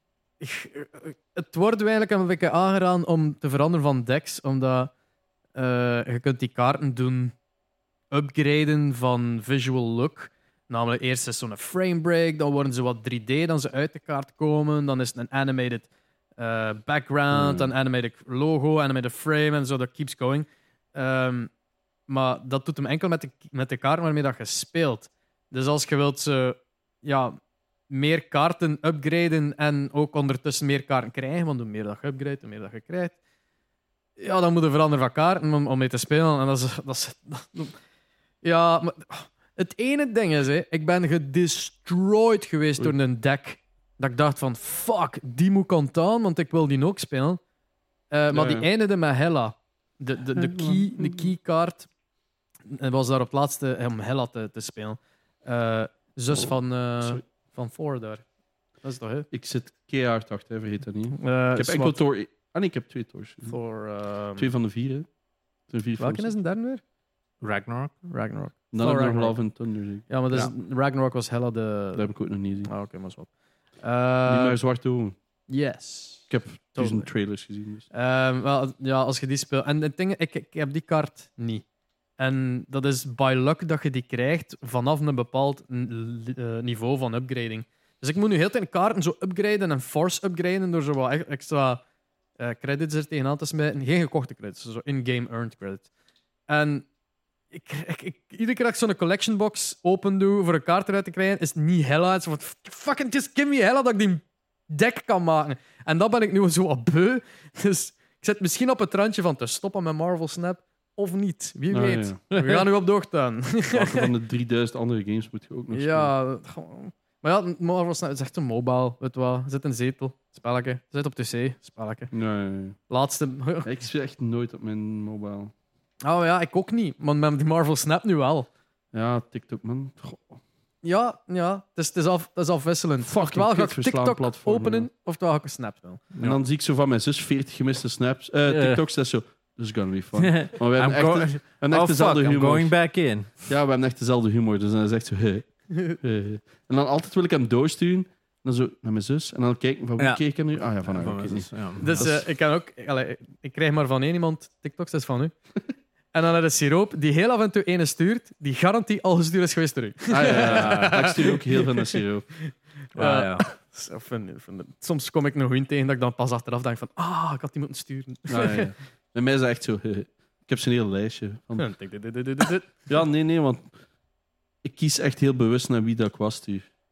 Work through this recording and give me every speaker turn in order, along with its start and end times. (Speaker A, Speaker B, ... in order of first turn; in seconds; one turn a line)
Speaker A: 0.4-4.9
Speaker A: 5.5-7.3
Speaker A: 8.1-21.5
Speaker B: 17.3-17.7
Speaker A: 22.1-27.4
Speaker A: 27.9-33.1
Speaker A: 34.2-37.8
Speaker A: 38.4-47.4
Speaker A: 48.1-51.9
Speaker B: 48.3-48.7
Speaker B: 50.3-51.3
Speaker A: 52.7-58.2
Speaker B: 56.3-57.2
Speaker A: 58.8-59.3
Speaker B: 59.3-63.5
Speaker A: 61.1-62.0
Speaker A: 63.5-64.5
Speaker B: 64.4-65.1
Speaker B: 65.7-66.3
Speaker A: 66.0-66.8
Speaker C: 67.4-67.9
Speaker A: 68.1-69.4
Speaker B: 68.7-70.5
Speaker A: 70.1-74.6
Speaker B: 71.9-72.7
Speaker B: 74.3-75.1
Speaker A: 75.5-77.1
Speaker B: 76.3-77.9
Speaker A: 77.9-81.6
Speaker A: 82.2-91.8
Speaker A: 92.4-95.9
Speaker A: 96.5-96.9
Speaker A: 97.5-114.1
Speaker B: 111.7-112.3
Speaker B: 113.7-116.1
Speaker A: 115.7-122.1
Speaker B: 122.1-122.8
Speaker A: 122.9-123.7
Speaker B: 123.6-125.5
Speaker A: 126.0-128.5
Speaker B: 128.9-130.4
Speaker A: 130.8-136.0
Speaker B: 133.1-134.9
Speaker C: 136.1-136.4
Speaker B: 136.2-142.8
Speaker C: 138.5-138.8
Speaker C: 140.2-143.5
Speaker B: 143.4-152.2
Speaker C: 150.8-152.1
Speaker A: 151.8-155.3
Speaker A: 156.1-168.7
Speaker B: 160.1-162.3
Speaker C: 160.3-161.0
Speaker C: 162.9-163.4
Speaker B: 168.3-171.7
Speaker A: 171.6-172.7
Speaker B: 172.8-173.7
Speaker B: 174.6-176.7